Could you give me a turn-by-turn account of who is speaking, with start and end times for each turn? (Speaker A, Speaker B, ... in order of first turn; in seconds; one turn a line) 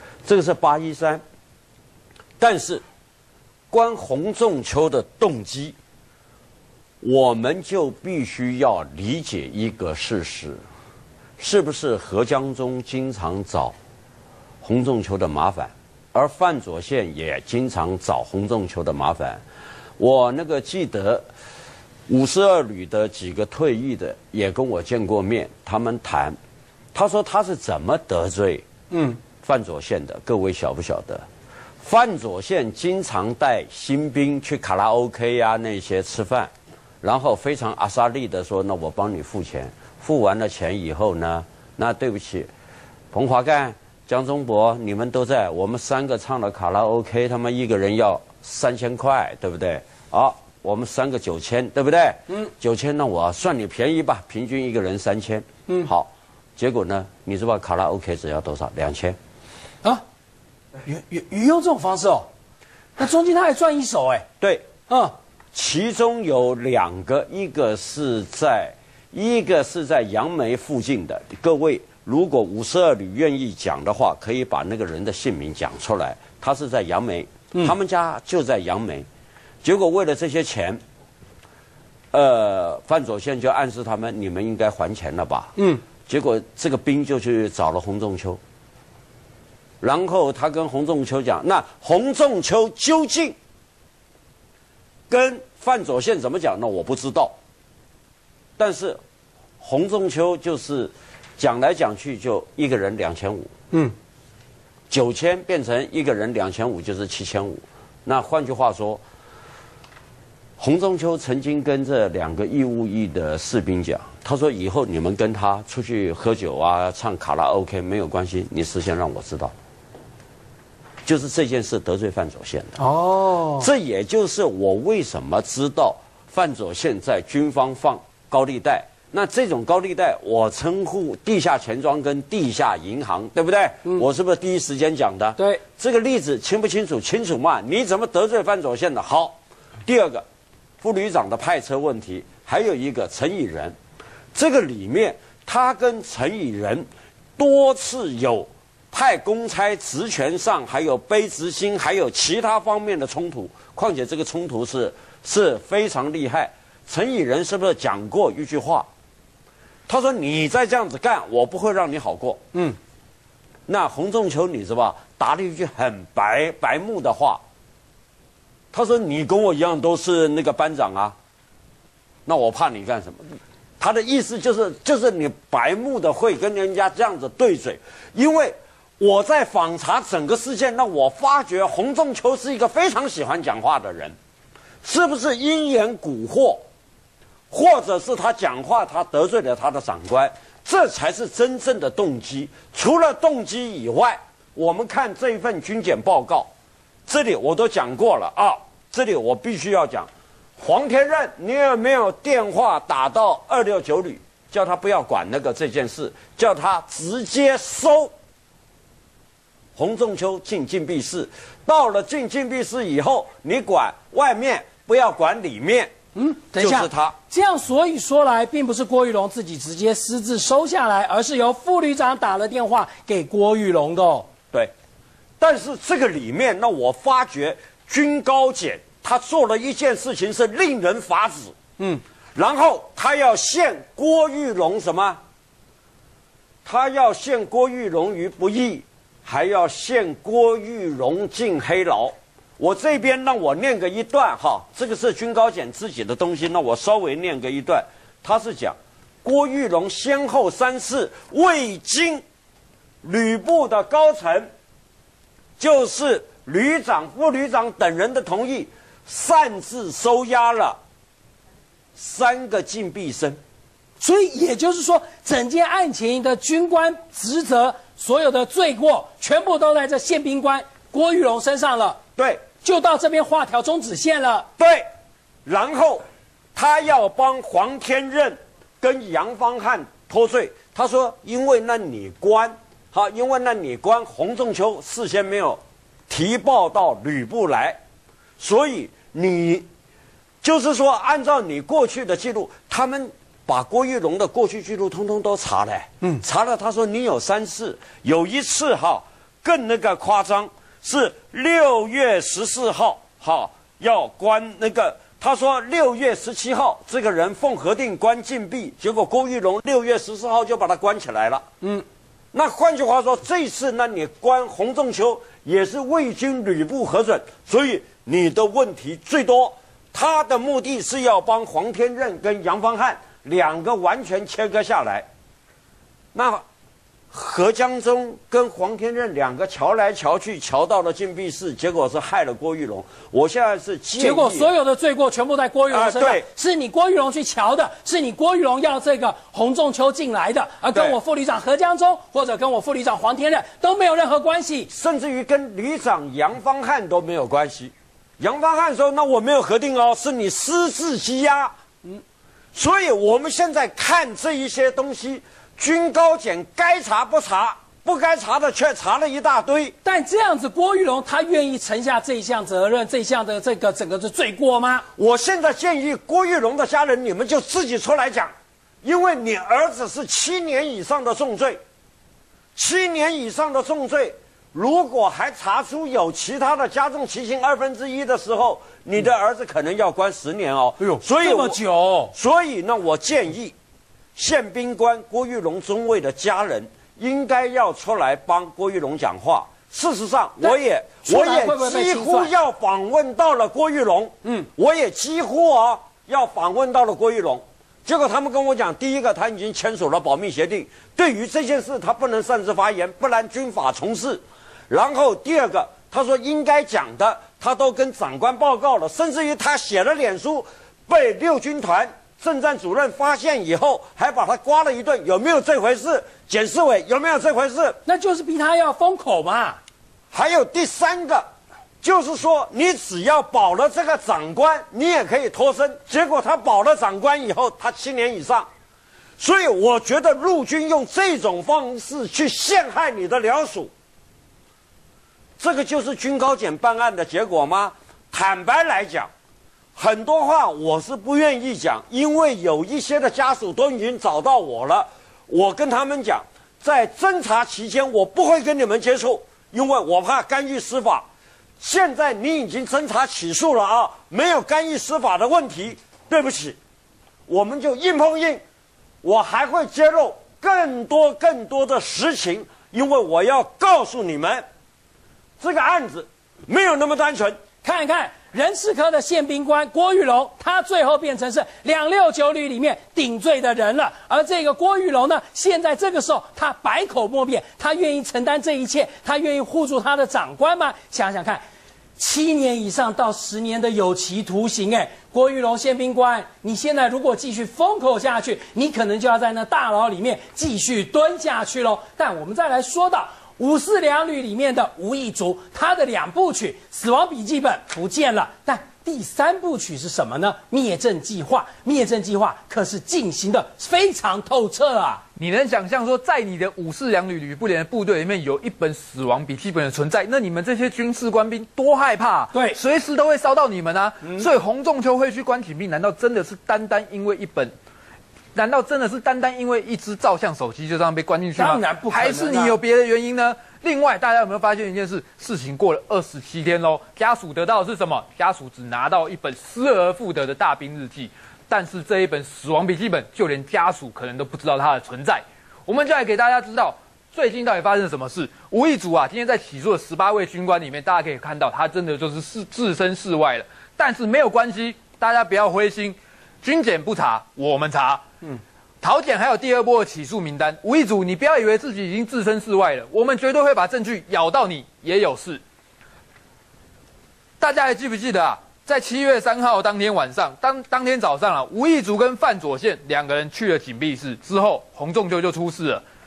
Speaker A: 0.2-1.2
Speaker A: 2.4-2.8
Speaker A: 3.7-5.8
Speaker A: 7.0-10.6
Speaker A: 11.4-13.8
Speaker A: 14.6-19.4
Speaker A: 20.0-21.3
Speaker A: 22.1-26.4
Speaker A: 26.9-28.6
Speaker B: 28.9-29.2
Speaker A: 29.4-31.2
Speaker A: 31.8-36.5
Speaker A: 37.0-42.5
Speaker A: 43.1-59.2
Speaker B: 60.9-62.3
Speaker B: 63.0-64.2
Speaker A: 64.4-64.7
Speaker B: 64.9-65.1
Speaker A: 65.5-79.1
Speaker A: 79.6-80.8
Speaker A: 82.1-85.5
Speaker B: 85.6-85.8
Speaker A: 86.1-88.4
Speaker A: 89.8-93.4
Speaker A: 95.1-97.3
Speaker A: 98.6-99.0
Speaker A: 99.6-103.5
Speaker A: 104.9-109.0
Speaker A: 110.6-119.5
Speaker A: 121.0-122.8
Speaker B: 122.8-123.7
Speaker A: 123.6-140.2
Speaker A: 140.8-143.8
Speaker A: 144.3-158.9
Speaker A: 159.9-162.4
Speaker A: 163.7-167.4
Speaker A: 168.7-171.2
Speaker A: 172.3-184.2
Speaker A: 184.8-186.6
Speaker A: 187.5-196.5
Speaker A: 197.1-208.1
Speaker A: 209.8-215.9
Speaker B: 216.2-224.3
Speaker A: 216.6-217.2
Speaker A: 225.4-231.5
Speaker A: 232.3-235.2
Speaker A: 236.7-252.2
Speaker A: 253.0-254.5
Speaker A: 255.6-260.8
Speaker A: 262.0-263.4
Speaker B: 264.0-272.0
Speaker A: 272.2-272.4
Speaker B: 272.6-274.5
Speaker A: 274.6-274.9
Speaker A: 275.5-276.0
Speaker A: 276.6-287.8
Speaker A: 288.4-289.7
Speaker A: 290.4-311.4
Speaker A: 312.3-325.1
Speaker A: 326.1-326.4
Speaker A: 327.1-334.5
Speaker B: 334.0-344.7
Speaker A: 335.7-336.2
Speaker A: 344.7-351.5
Speaker A: 352.6-359.8
Speaker B: 359.8-364.9
Speaker A: 365.0-371.6
Speaker A: 372.6-381.6
Speaker B: 380.8-382.1
Speaker A: 382.1-383.5
Speaker A: 384.2-417.8
Speaker B: 390.4-392.3
Speaker B: 417.9-419.6
Speaker A: 420.1-421.3
Speaker A: 421.8-428.5
Speaker A: 429.2-433.7
Speaker A: 435.4-439.1
Speaker A: 439.8-451.1
Speaker A: 451.6-456.6
Speaker A: 457.3-458.4
Speaker A: 459.0-464.4
Speaker A: 465.4-467.4
Speaker B: 467.6-481.4
Speaker B: 482.0-505.0
Speaker C: 505.2-517.5
Speaker B: 512.3-512.6
Speaker C: 518.4-548.0
Speaker B: 521.4-522.6
Speaker C: 548.8-555.4
Speaker C: 557.4-565.8